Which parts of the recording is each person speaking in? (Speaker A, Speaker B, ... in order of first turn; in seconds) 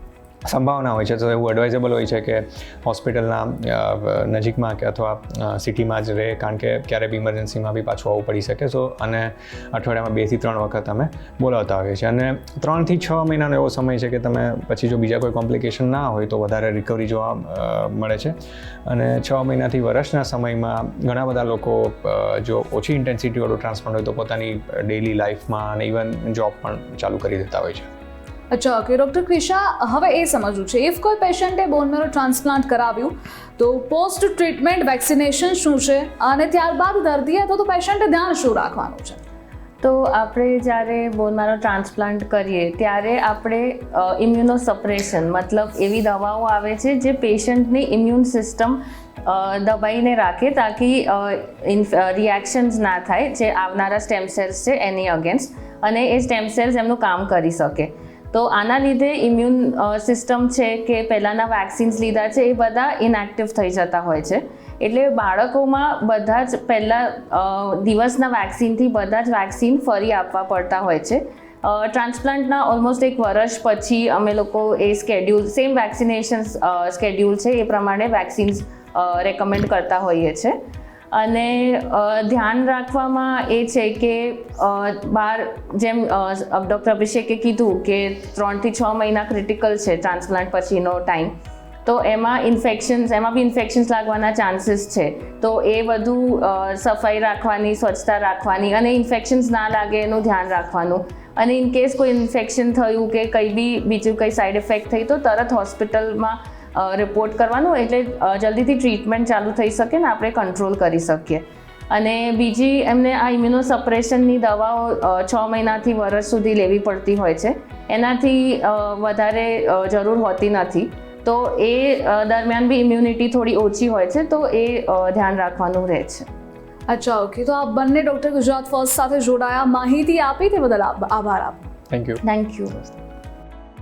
Speaker A: 0.5-18.4, 18.9-27.9, 131.9-132.2
Speaker B: 28.5-39.2, 126.9-131.7
Speaker C: 39.8-80.6, 81.1-126.3, 132.2-132.9